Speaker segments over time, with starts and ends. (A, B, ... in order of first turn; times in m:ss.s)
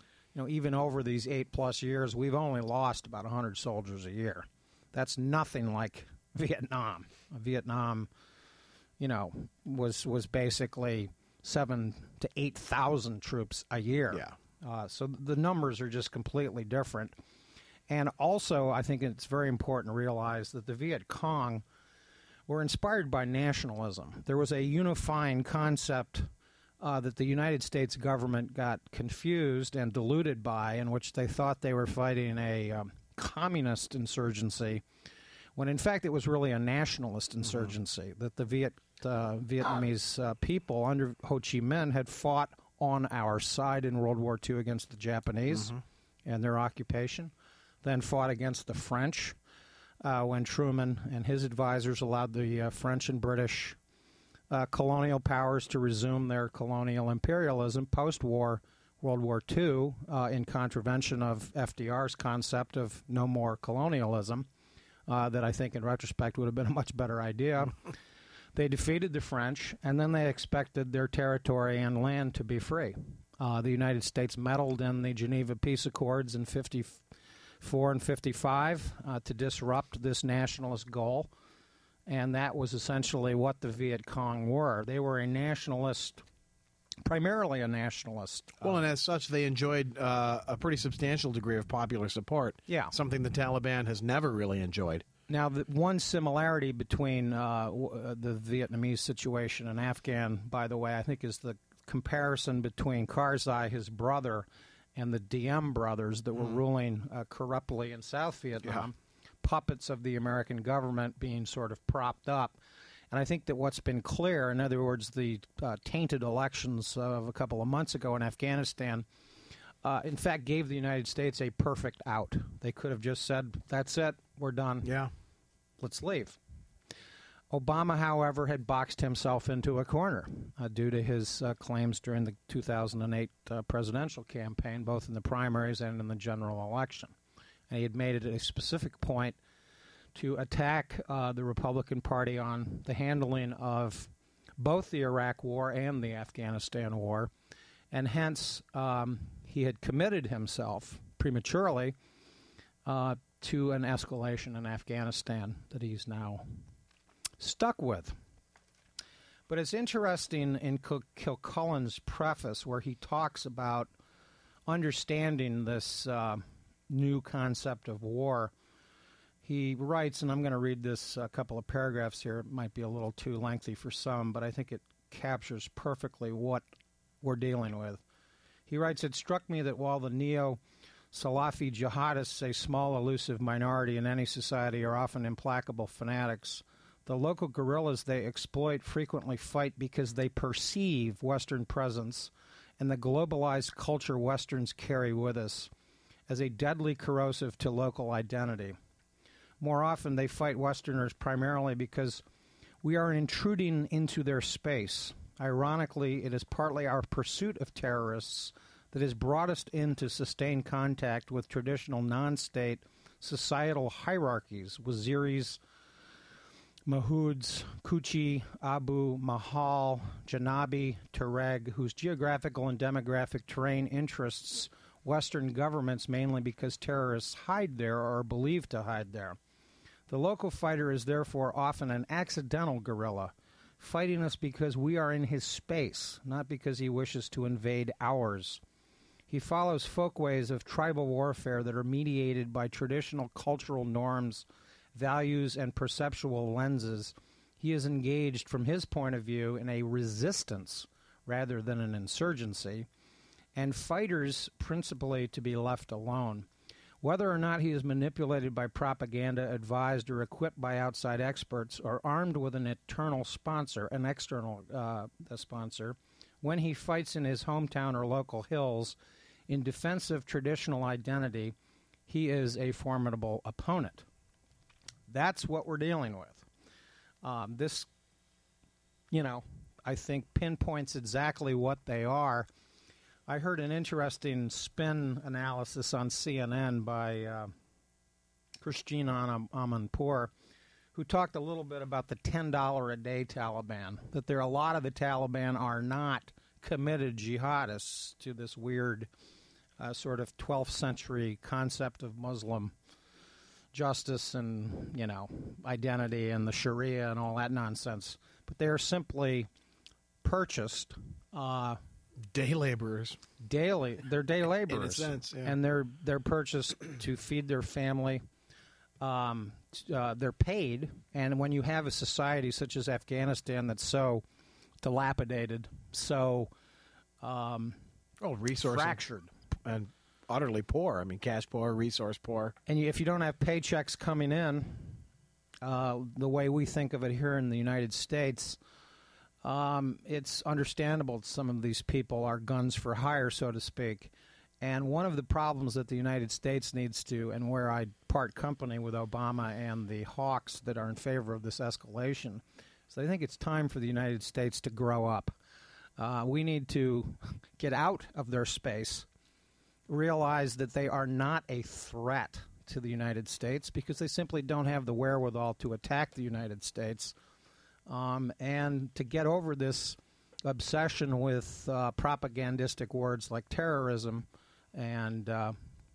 0:00.3-0:08.1 A
0:09.0-0:17.2 A
0:17.9-0:21.6 A
0:22.5-0:26.3 A
0:26.8-0:34.8 A
0:35.6-0:47.3 A
0:45.5-0:45.8 B
0:47.8-0:49.4 A
0:50.0-0:53.8 A
0:54.5-1:04.5 A
1:05.1-1:07.8 A
1:08.6-1:17.0 A
1:17.6-1:21.3 A
1:22.1-1:26.2 A
1:27.0-1:28.8 A
1:28.6-1:35.1 B
1:32.7-1:32.9 A
1:35.3-1:52.6 A
1:53.1-1:59.1 A
1:59.8-2:04.9 A
2:04.8-2:05.1 B
2:05.8-2:06.4 A
2:07.5-2:17.2 A
2:17.7-2:19.4 A
2:20.2-2:27.3 A
2:27.9-2:32.0 A
2:32.9-2:36.5 A
2:37.4-2:38.2 A
2:39.5-2:43.9 A
2:44.7-2:48.5 A
2:49.4-2:56.6 A
2:57.2-2:58.0 A
2:58.7-3:00.6 A
3:01.1-3:15.7 A
3:16.3-3:18.8 A
3:19.6-3:22.2 A
3:22.8-3:35.6 A
3:36.9-3:49.4 A
3:50.1-3:58.6 A
3:59.3-4:12.9 A
4:13.6-4:16.5 A
4:17.0-4:29.0 A
4:29.5-4:31.6 A
4:32.1-4:34.1 A
4:35.1-4:36.5 A
4:37.2-4:37.9 A
4:39.1-4:42.5 A
4:43.3-4:47.5 A
4:48.6-4:50.3 A
4:50.9-4:59.1 A
4:59.8-5:02.7 A
5:03.7-5:09.5 A
5:10.2-5:11.8 A
5:12.3-5:13.2 B
5:13.4-5:18.2 A
5:14.7-5:15.6 B
5:19.0-5:24.2 A
5:24.8-5:26.5 A
5:27.2-5:27.8 A
5:28.2-5:29.0 B
5:28.6-5:29.3 A
5:29.6-5:32.6 B
5:32.7-5:35.0 A
5:35.6-5:38.6 A
5:39.4-5:55.3 A
5:56.0-5:59.1 A
5:59.9-6:07.2 A
6:07.9-6:15.6 A